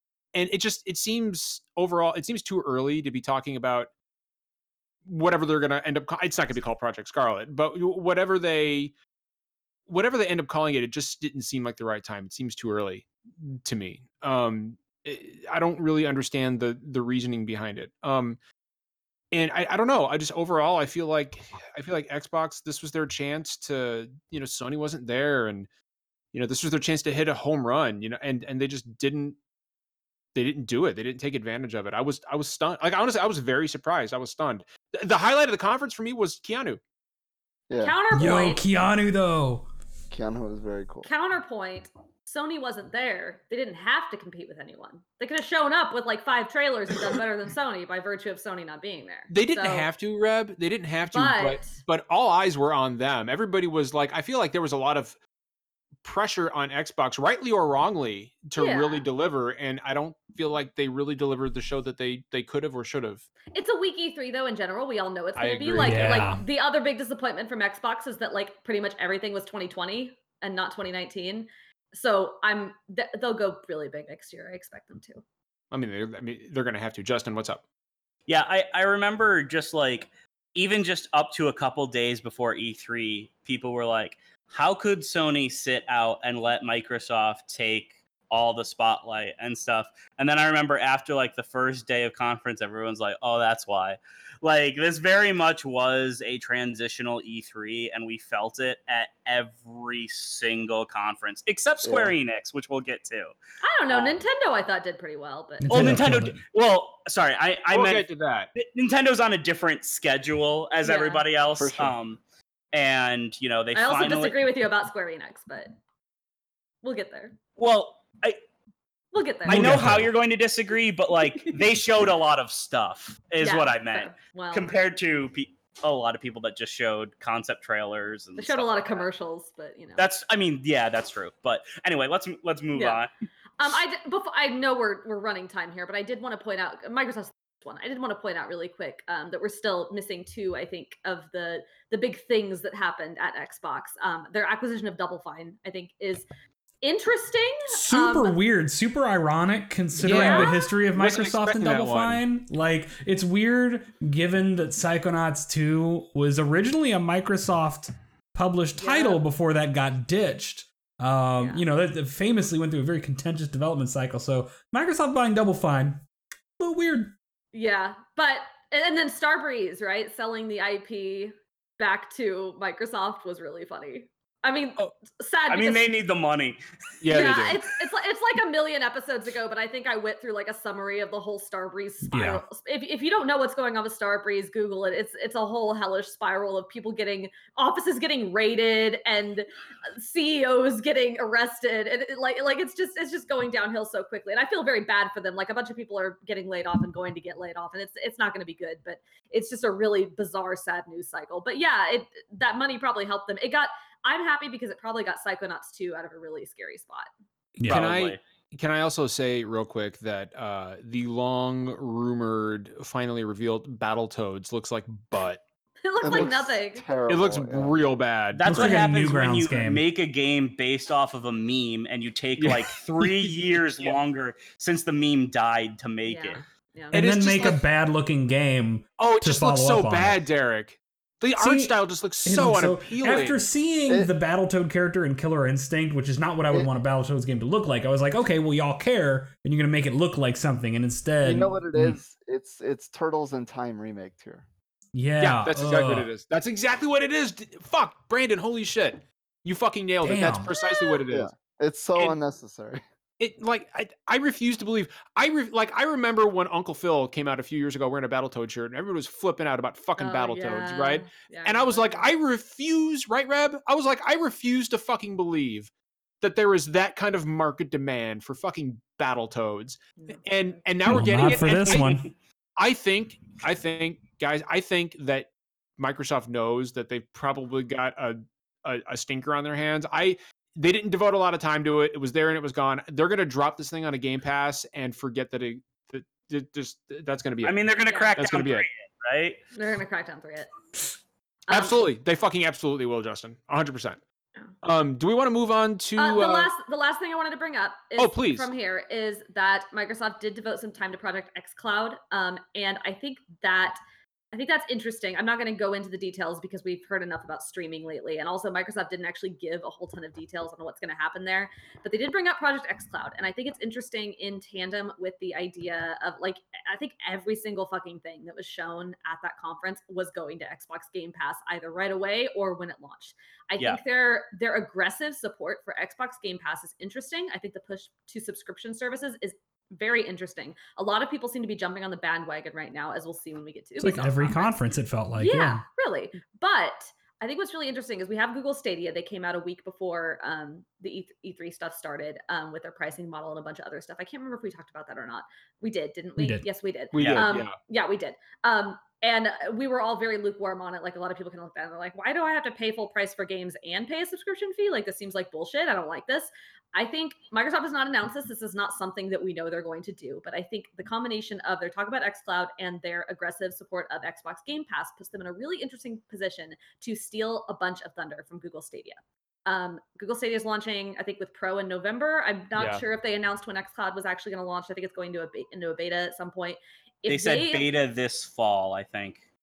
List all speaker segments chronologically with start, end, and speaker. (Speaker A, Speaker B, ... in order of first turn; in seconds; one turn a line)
Speaker A: 0.3-3.9
Speaker A: 5.0-8.9
Speaker A: 9.9-18.4
Speaker A: 19.3-25.7
Speaker A: 26.3-29.4
Speaker A: 30.3-36.8
Speaker B: 37.7-38.0
Speaker C: 37.8-38.6
Speaker D: 38.1-39.6
Speaker B: 40.1-41.1
Speaker C: 41.0-49.9
Speaker A: 49.3-55.1
Speaker C: 51.1-51.8
Speaker A: 56.0-63.2
Speaker C: 58.5-59.0
Speaker C: 63.5-75.2
Speaker A: 65.3-66.3
Speaker D: 65.8-66.4
Speaker A: 75.7-77.6
Speaker E: 78.3-103.3
Speaker B: 101.8-102.1
Speaker C: 103.6-106.0
Speaker D: 105.6-106.4
Speaker E: 105.7-112.2
Speaker A: 107.7-108.5
Speaker C: 110.8-111.2
Speaker B: 111.5-111.9
Speaker E: 112.7-114.4
Speaker C: 113.7-115.7
Speaker C: 116.8-117.4
Speaker E: 117.6-118.4
Speaker C: 119.1-119.9
Speaker E: 119.5-129.1
Speaker D: 119.5-120.1
Speaker C: 123.4-124.7
Speaker C: 128.4-130.0
Speaker E: 130.0-133.1
Speaker C: 132.7-133.0
Speaker C: 133.6-146.3
Speaker C: 146.8-148.4
Speaker D: 147.7-166.0
Speaker A: 150.0-152.2
Speaker C: 150.0-150.7
Speaker C: 158.8-159.2
Speaker C: 161.4-161.6
Speaker D: 166.6-167.1
Speaker C: 167.5-175.9
Speaker E: 175.5-176.6
Speaker A: 177.0-177.6
Speaker C: 177.1-207.1
Speaker D: 182.1-182.4
Speaker D: 207.6-207.9
Speaker A: 207.6-215.4
Speaker E: 207.7-208.2
Speaker C: 215.8-216.9
Speaker B: 216.0-217.8
Speaker A: 217.1-218.8
Speaker E: 218.3-226.4
Speaker D: 218.4-219.8
Speaker A: 222.4-223.9
Speaker C: 226.1-227.0
Speaker D: 226.9-230.2
Speaker A: 226.9-227.6
Speaker A: 229.0-233.4
Speaker D: 231.4-242.0
Speaker B: 241.2-244.4
Speaker D: 244.9-246.1
Speaker A: 245.2-251.3
Speaker D: 250.0-250.5
Speaker C: 250.5-251.0
Speaker B: 251.1-252.8
Speaker A: 253.2-265.7
Speaker C: 260.0-262.1
Speaker A: 266.2-272.0
Speaker C: 270.0-270.6
Speaker D: 270.9-272.1
Speaker E: 271.4-272.1
Speaker A: 272.6-288.7
Speaker E: 287.4-289.4
Speaker C: 287.9-288.1
Speaker C: 289.5-290.5
Speaker C: 291.5-291.8
Speaker A: 291.5-294.0
Speaker A: 294.6-296.5
Speaker C: 296.0-303.8
Speaker A: 298.0-298.5
Speaker C: 304.3-334.5
Speaker D: 333.8-335.6
Speaker C: 335.2-377.7
Speaker D: 346.2-346.4
Speaker A: 346.9-347.5
Speaker E: 346.9-347.3
Speaker A: 372.6-372.8
Speaker E: 377.1-379.2